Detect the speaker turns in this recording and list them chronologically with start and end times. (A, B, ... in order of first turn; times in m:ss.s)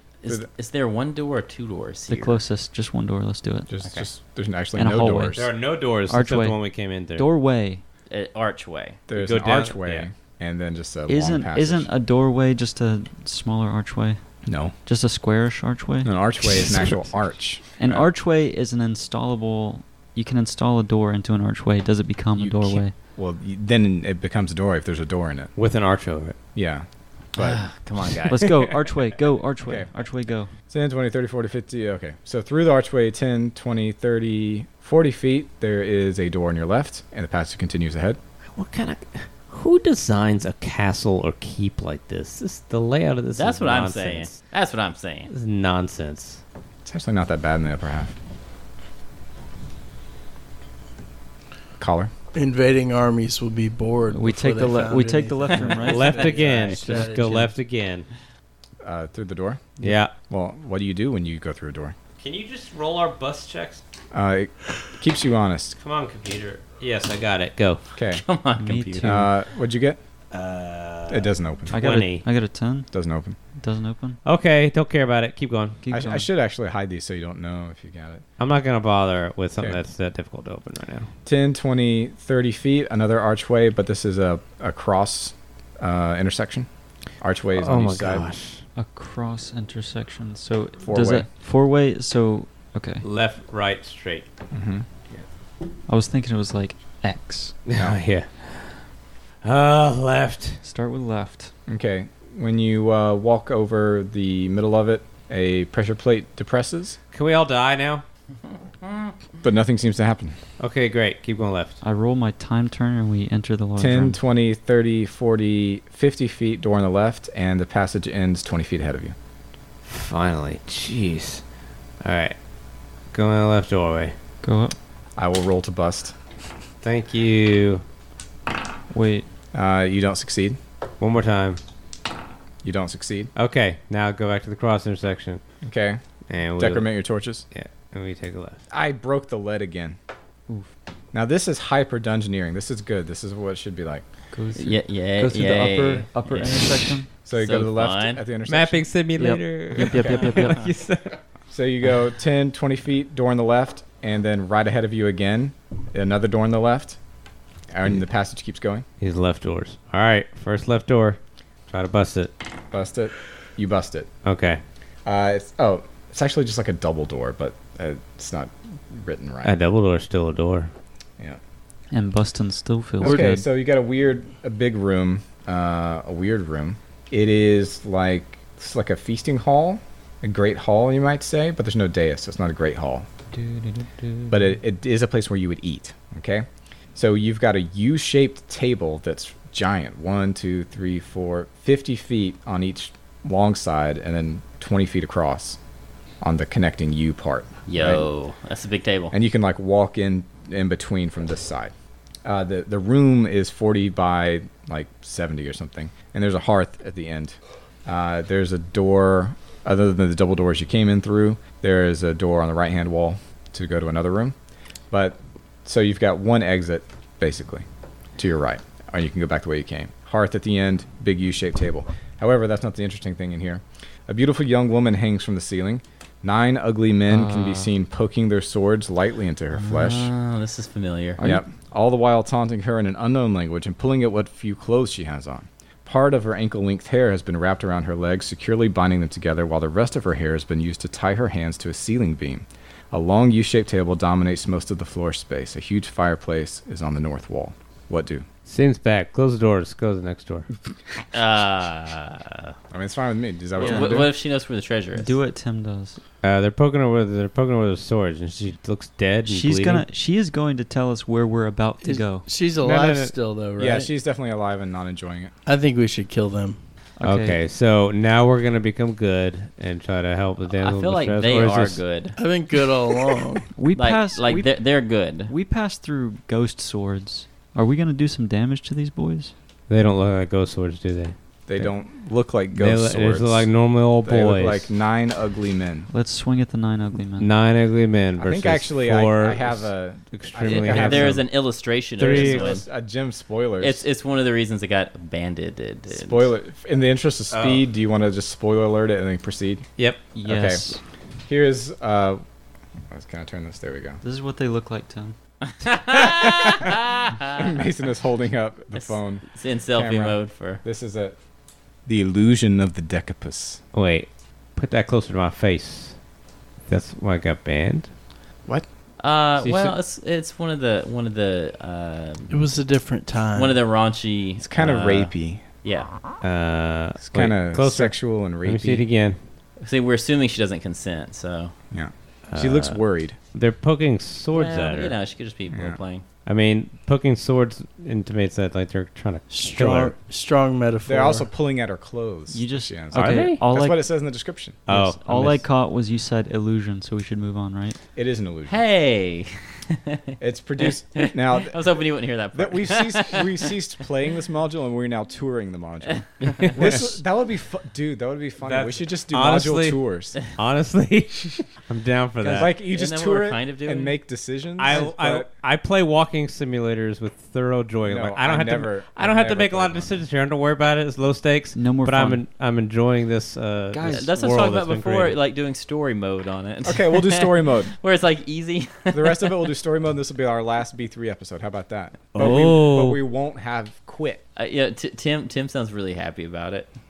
0:00.2-0:02.4 A
0:02.1-0:03.7 B
0:03.7-0:05.5 C
0:04.8-0:05.5 B
0:05.3-0:07.3 D
0:06.1-0:07.8 B
0:08.1-0:09.0 A
0:09.1-0:11.9 C
0:09.1-0:10.1 D
0:11.1-0:14.2 B
0:14.4-0:14.7 C
0:14.8-0:16.9 B
0:16.0-0:18.0 C
0:17.8-0:22.9 B
0:22.4-0:25.5 C
0:25.6-0:26.4 D
0:26.5-0:27.6 C
0:27.4-0:28.5 A
0:28.3-0:30.5 B
0:29.6-0:29.9 C
0:30.7-0:38.2 C
0:38.5-0:44.3 D
0:43.3-0:45.3 A
0:45.3-0:46.4 D
0:46.8-0:48.1 C
0:51.8-0:52.1 C
0:52.3-0:57.5 E
0:54.1-0:57.4 B
0:55.8-0:58.1 D
0:56.5-0:56.8 A
0:58.8-1:01.9 C
0:59.8-1:00.1 D
1:02.2-1:03.8 D
1:04.1-1:05.8 C
1:05.8-1:07.8 D
1:08.0-1:08.2 C
1:08.2-1:09.1 A
1:08.6-1:09.3 B
1:09.0-1:10.0 C
1:10.3-1:12.2 D
1:11.1-1:11.8 C
1:11.7-1:12.9 B
1:12.9-1:13.4 C
1:13.6-1:14.2 B
1:14.2-1:15.8 D
1:15.8-1:16.2 B
1:15.9-1:18.2 C
1:18.4-1:21.1 D
1:21.2-1:26.7 C
1:27.2-1:28.3 C
1:27.5-1:28.6 D
1:28.7-1:33.0 B
1:30.8-1:31.3 C
1:33.0-1:34.3 D
1:34.5-1:34.8 C
1:35.9-1:37.6 B
1:37.7-1:38.8 D
1:39.4-1:40.6 D
1:40.6-1:41.5 B
1:41.7-1:47.0 C
1:47.1-1:48.0 D
1:49.4-1:50.4 C
1:50.6-1:51.8 D
1:51.8-1:54.2 B
1:53.8-1:59.1 C
1:59.8-2:01.4 D
2:02.0-2:02.4 D
2:03.1-2:04.1 D
2:04.4-2:04.8 B
2:05.2-2:06.2 C
2:06.8-2:07.8 D
2:08.9-2:09.3 B
2:09.5-2:10.6 C
2:11.0-2:11.6 D
2:12.6-2:13.3 C
2:13.3-2:15.4 D
2:15.6-2:16.0 C
2:16.3-2:16.9 D
2:16.6-2:17.4 C
2:17.5-2:18.6 D
2:18.7-2:20.0 C
2:21.1-2:24.0 C
2:24.3-2:27.1 B
2:24.5-2:28.2 A
2:27.2-2:28.9 C
2:28.4-2:31.2 D
2:29.2-2:30.7 B
2:29.9-2:30.3 C
2:31.5-2:37.0 C
2:37.7-2:38.8 C
2:39.0-2:42.3 D
2:42.7-2:44.1 C
2:44.2-2:44.6 D
2:45.0-2:49.6 C
2:49.4-2:50.7 D
2:51.9-2:53.4 B
2:53.0-3:03.0 C
3:04.3-3:15.6 C
3:16.2-3:18.0 C
3:17.7-3:19.1 A
3:19.1-3:21.7 C
3:22.2-3:34.3 C
3:34.9-3:37.6 C
3:38.2-3:50.1 C
3:47.1-3:47.7 B
3:49.5-3:51.2 A
3:51.2-3:51.4 B
3:51.2-4:08.2 C
4:08.4-4:10.5 D
4:11.1-4:12.5 A
4:12.7-4:14.1 C
4:13.6-4:14.1 B
4:13.6-4:15.1 A
4:14.9-4:16.0 B
4:16.2-4:19.8 D
4:19.3-4:22.3 B
4:21.8-4:23.9 E
4:22.6-4:25.3 C
4:25.4-4:26.6 E
4:27.0-4:27.4 B
4:27.0-4:31.8 D
4:30.5-4:32.2 A
4:32.2-4:33.5 E
4:33.6-4:34.5 B
4:33.7-4:35.3 A
4:35.3-4:39.3 B
4:39.7-4:41.6 D
4:41.5-4:43.5 C
4:42.5-4:44.7 D
4:44.0-4:45.9 C
4:45.9-4:47.3 B
4:47.2-4:51.3 D
4:48.2-4:51.2 C
4:50.4-4:52.6 A
4:52.0-4:52.6 D
4:52.0-4:53.8 C
4:53.6-4:56.3 A
4:55.9-4:59.7 C
4:57.3-4:57.6 D
4:59.8-5:00.0 D
5:00.1-5:00.8 B
5:00.2-5:00.6 C
5:01.3-5:02.2 C
5:02.9-5:04.0 C
5:04.0-5:05.2 B
5:05.5-5:07.5 A
5:05.9-5:06.7 C
5:07.3-5:11.2 C
5:08.7-5:10.6 A
5:11.8-5:13.6 C
5:13.7-5:16.0 D
5:16.7-5:17.9 D
5:19.0-5:22.3 A
5:19.4-5:19.7 D
5:22.3-5:23.6 E
5:23.3-5:25.9 A
5:24.4-5:25.4 C
5:26.2-5:29.2 D
5:27.0-5:28.8 C
5:29.6-5:31.5 A
5:31.7-5:33.2 C
5:32.3-5:35.0 D
5:34.3-5:36.0 A
5:35.5-5:35.8 C
5:36.2-5:39.9 D
5:39.3-5:41.3 E
5:40.8-5:44.6 C
5:42.3-5:43.8 B
5:42.9-5:43.4 D
5:44.7-5:45.4 D
5:44.7-5:47.8 B
5:47.9-5:48.6 C
5:48.5-5:50.0 A
5:50.2-5:51.6 C
5:50.6-5:53.5 A
5:52.3-6:00.2 C
5:55.9-5:56.7 A
5:58.4-6:02.5 D
6:02.2-6:05.3 C
6:02.4-6:04.0 A
6:04.6-6:15.2 D
6:07.8-6:10.0 C
6:11.5-6:12.2 B
6:13.7-6:14.0 B
6:13.8-6:19.5 A
6:16.6-6:17.7 C
6:18.9-6:24.2 C
6:22.1-6:23.0 D
6:24.4-6:26.7 A